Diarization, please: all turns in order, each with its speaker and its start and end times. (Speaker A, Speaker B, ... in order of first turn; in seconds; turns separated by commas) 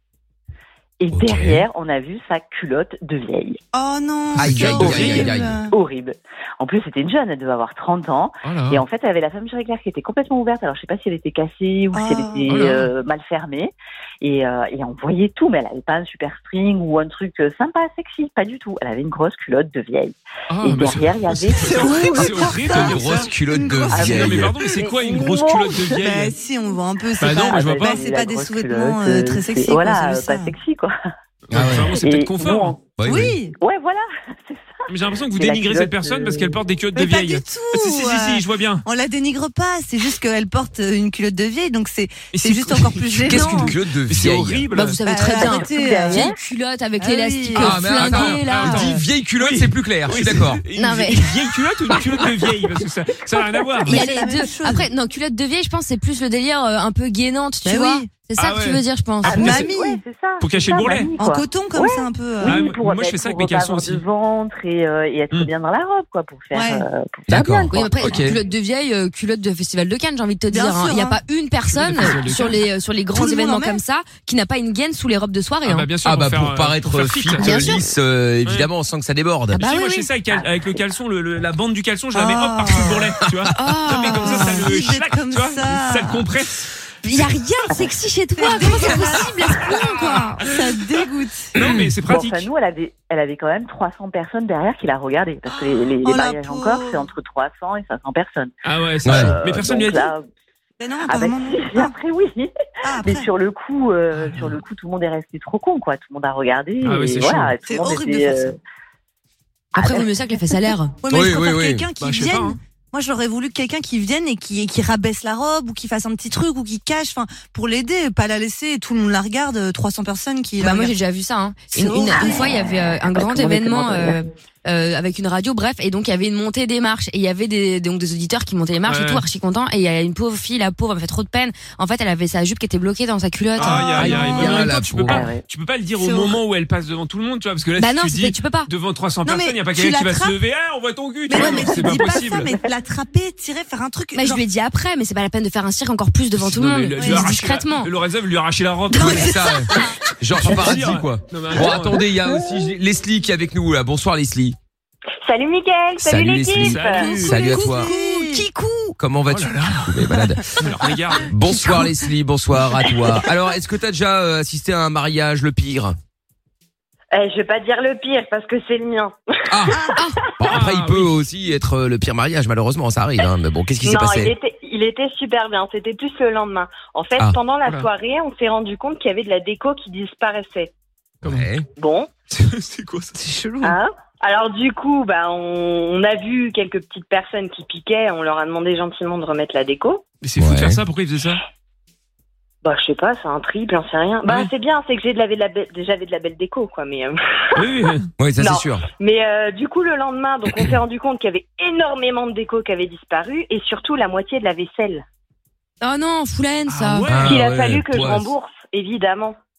Speaker A: 1.0-3.6, Speaker B: 1.1-1.7, Speaker C: 3.7-5.7, Speaker B: 4.4-5.5, Speaker D: 4.6-5.2, Speaker A: 4.8-23.0, Speaker D: 8.4-8.8, Speaker C: 11.9-12.6, Speaker D: 12.5-12.9, Speaker D: 20.5-23.3, Speaker C: 21.6-24.2, Speaker B: 22.6-24.6, Speaker D: 23.9-26.3, Speaker A: 23.9-25.9, Speaker C: 25.9-30.5, Speaker D: 27.2-28.0, Speaker A: 27.3-30.9, Speaker D: 31.5-32.8, Speaker B: 31.5-31.9, Speaker A: 31.9-32.8, Speaker B: 33.0-33.4, Speaker C: 33.0-33.5, Speaker A: 33.6-36.6, Speaker D: 34.9-38.9, Speaker C: 37.0-43.8, Speaker D: 42.3-45.0, Speaker B: 43.2-44.7, Speaker E: 44.7-48.9, Speaker C: 45.0-46.4, Speaker A: 45.4-46.3, Speaker C: 47.0-47.8, Speaker B: 47.5-50.6, Speaker D: 47.8-54.0, Speaker E: 50.8-51.3, Speaker C: 53.6-54.9, Speaker E: 53.9-59.6, Speaker C: 57.6-58.1, Speaker D: 58.4-59.6, Speaker A: 59.3-68.0, Speaker C: 59.3-60.0, Speaker D: 60.4-61.1, Speaker C: 61.2-62.7, Speaker D: 62.4-64.0, Speaker C: 66.5-66.9, Speaker B: 67.3-68.4, Speaker E: 67.7-75.9, Speaker C: 70.5-71.2, Speaker D: 71.7-72.6, Speaker C: 73.1-73.8, Speaker D: 75.7-77.8, Speaker B: 76.0-79.6, Speaker E: 77.4-77.8, Speaker D: 79.5-86.7, Speaker E: 79.5-80.1, Speaker C: 82.1-83.1, Speaker E: 83.5-84.7, Speaker C: 83.9-86.3, Speaker E: 87.0-90.4, Speaker C: 88.4-91.5, Speaker D: 91.5-92.5, Speaker A: 92.1-98.5, Speaker C: 95.6-97.1, Speaker D: 98.6-100.1, Speaker A: 99.0-100.3, Speaker B: 99.0-99.3, Speaker C: 100.8-101.9, Speaker A: 101.1-102.5, Speaker C: 102.8-103.3, Speaker A: 103.0-108.6, Speaker D: 104.2-104.6, Speaker D: 106.8-107.5, Speaker C: 107.6-108.5, Speaker E: 109.8-110.9, Speaker C: 111.0-120.9, Speaker B: 111.1-111.8, Speaker D: 112.0-112.6, Speaker E: 120.6-134.4, Speaker C: 121.7-122.7, Speaker A: 122.2-122.5, Speaker A: 123.2-124.2, Speaker D: 128.9-129.2, Speaker D: 133.6-142.5, Speaker B: 133.9-135.3, Speaker A: 135.1-135.4, Speaker C: 136.0-136.4, Speaker E: 137.8-138.7, Speaker C: 139.2-140.4, Speaker C: 141.3-144.4, Speaker E: 144.2-147.9, Speaker D: 146.4-149.4, Speaker C: 147.0-147.3, Speaker B: 148.9-154.6, Speaker C: 148.9-149.4, Speaker D: 150.3-152.1, Speaker F: 155.2-157.2, Speaker B: 156.0-157.9, Speaker D: 156.6-157.5, Speaker C: 157.1-158.9, Speaker E: 157.2-158.9, Speaker B: 159.0-160.5, Speaker D: 159.3-159.9, Speaker D: 160.6-161.3, Speaker B: 161.3-166.0, Speaker F: 167.1-169.6, Speaker B: 169.5-169.8, Speaker B: 170.4-174.3, Speaker D: 170.4-171.2, Speaker F: 173.8-180.7, Speaker B: 181.2-181.6, Speaker D: 181.2-181.5, Speaker F: 181.8-182.1, Speaker D: 182.3-183.2, Speaker C: 183.2-183.8, Speaker F: 183.6-190.1, Speaker D: 190.2-191.4, Speaker B: 190.4-190.8, Speaker F: 192.6-197.7, Speaker D: 194.2-194.5, Speaker D: 197.6-198.1, Speaker B: 198.2-198.8, Speaker F: 198.4-205.0, Speaker E: 205.8-207.1, Speaker D: 206.7-207.5, Speaker B: 207.1-208.3, Speaker F: 207.2-209.4